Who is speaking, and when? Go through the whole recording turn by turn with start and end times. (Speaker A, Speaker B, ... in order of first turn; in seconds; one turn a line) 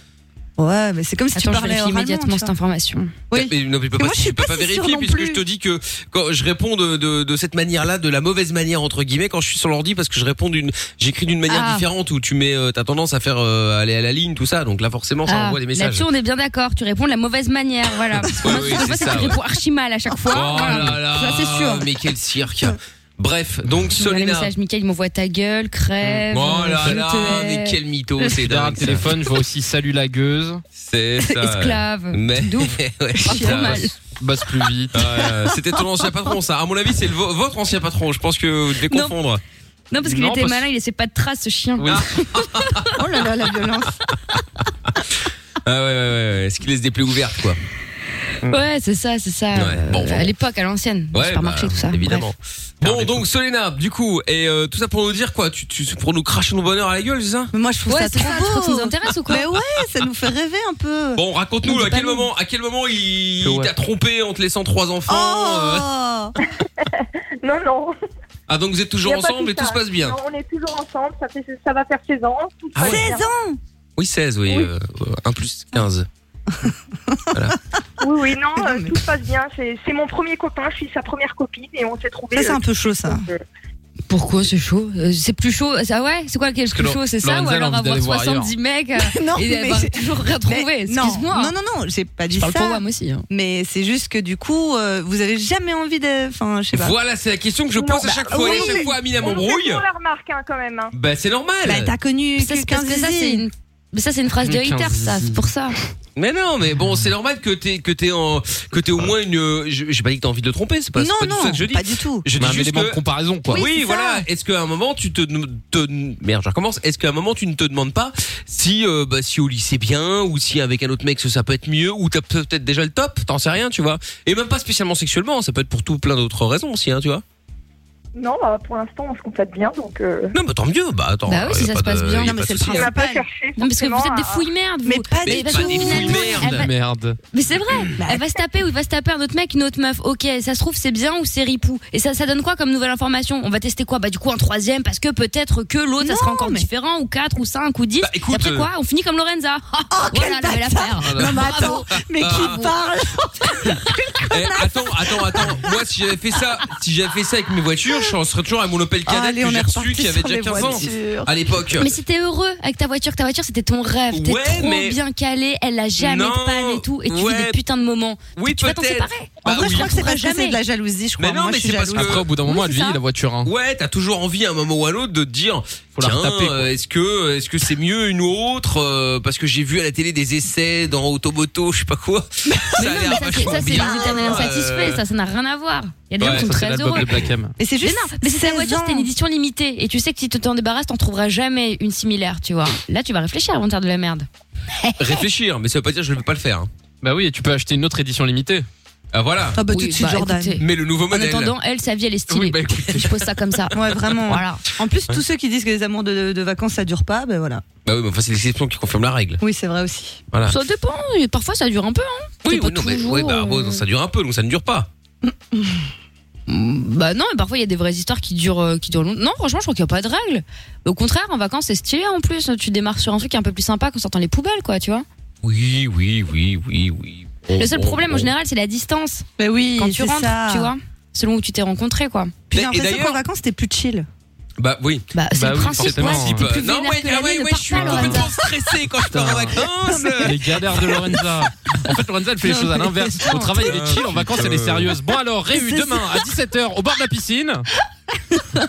Speaker A: 0.6-2.5
Speaker B: 1.3-3.1
Speaker A: 3.3-5.4
Speaker C: 3.3-16.1
Speaker B: 11.5-11.8
Speaker B: 15.2-21.8
Speaker C: 18.4-19.4
Speaker C: 20.3-24.5
Speaker B: 23.9-27.8
Speaker C: 26.3-29.1
Speaker D: 28.3-30.6
Speaker C: 30.8-33.9
Speaker B: 31.2-33.9
Speaker A: 33.2-33.8
Speaker D: 34.2-35.2
Speaker C: 34.9-39.4
Speaker B: 38.9-39.1
Speaker B: 39.9-42.0
Speaker D: 40.0-40.6
Speaker D: 41.8-42.0
Speaker C: 42.3-42.9
Speaker A: 42.9-44.0
Speaker C: 45.6-47.6
Speaker B: 48.5-52.3
Speaker C: 49.5-50.3
Speaker C: 51.1-57.5
Speaker A: 57.5-62.3
Speaker B: 57.9-59.5
Speaker C: 61.1-65.9
Speaker D: 63.4-63.7
Speaker A: 65.1-66.3
Speaker E: 67.0-67.9
Speaker C: 68.5-70.2
Speaker E: 69.0-73.3
Speaker C: 72.7-73.1
Speaker A: 72.8-73.6
Speaker C: 74.0-76.1
Speaker A: 76.6-77.5
Speaker E: 78.0-83.4
Speaker A: 78.5-79.0
Speaker A: 82.3-83.3
Speaker B: 84.1-91.5
Speaker D: 86.7-88.5
Speaker A: 89.0-97.0
Speaker B: 92.3-93.2
Speaker C: 96.7-99.8
Speaker E: 97.8-100.9
Speaker A: 98.1-99.0
Speaker C: 100.9-101.9
Speaker A: 101.6-103.4
Speaker B: 102.4-105.8
Speaker D: 104.4-105.4
Speaker C: 106.2-113.0
Speaker A: 111.0-112.2
Speaker D: 112.3-113.6
Speaker A: 113.5-114.2
Speaker C: 113.5-127.2
Speaker E: 128.2-130.3
Speaker C: 130.3-132.9
Speaker B: 131.3-132.3
Speaker A: 132.2-133.2
Speaker E: 132.7-134.5
Speaker B: 133.6-136.7
Speaker A: 134.8-136.4
Speaker C: 135.2-136.7
Speaker D: 136.4-137.2
Speaker B: 137.3-151.9
Speaker A: 138.0-138.2
Speaker A: 146.0-146.7
Speaker C: 148.0-148.7
Speaker A: 149.9-155.7
Speaker C: 152.2-152.7
Speaker C: 154.3-161.9
Speaker A: 159.1-161.3
Speaker B: 161.8-170.6
Speaker C: 164.1-165.0
Speaker C: 166.0-167.6
Speaker C: 168.3-169.9
Speaker A: 169.4-173.0
Speaker C: 171.2-172.2
Speaker D: 171.9-173.5
Speaker C: 173.4-185.0
Speaker D: 176.0-176.7
Speaker B: 182.8-187.1
Speaker A: 183.5-184.4
Speaker C: 186.2-186.5
Speaker D: 186.2-187.5
Speaker A: 187.6-189.1
Speaker B: 187.8-194.3
Speaker C: 195.0-196.7
Speaker D: 197.0-198.7
Speaker C: 199.1-199.6
Speaker A: 199.5-200.6
Speaker B: 199.7-204.6
Speaker C: 200.6-201.5
Speaker D: 202.3-202.9
Speaker C: 202.7-203.1
Speaker A: 203.7-207.6
Speaker C: 207.8-209.4
Speaker A: 209.4-210.2
Speaker B: 210.4-213.8
Speaker C: 212.4-214.9
Speaker B: 216.5-225.1
Speaker C: 225.4-228.3
Speaker B: 227.6-229.2
Speaker A: 229.4-230.7
Speaker B: 229.8-232.3
Speaker A: 232.5-234.1
Speaker C: 232.5-233.2
Speaker C: 234.6-241.0
Speaker B: 235.1-238.3
Speaker D: 235.3-236.5
Speaker D: 237.8-238.3
Speaker D: 239.1-239.6
Speaker A: 239.9-240.9
Speaker D: 240.2-247.7
Speaker A: 242.4-243.8
Speaker C: 243.6-244.9
Speaker A: 245.5-246.2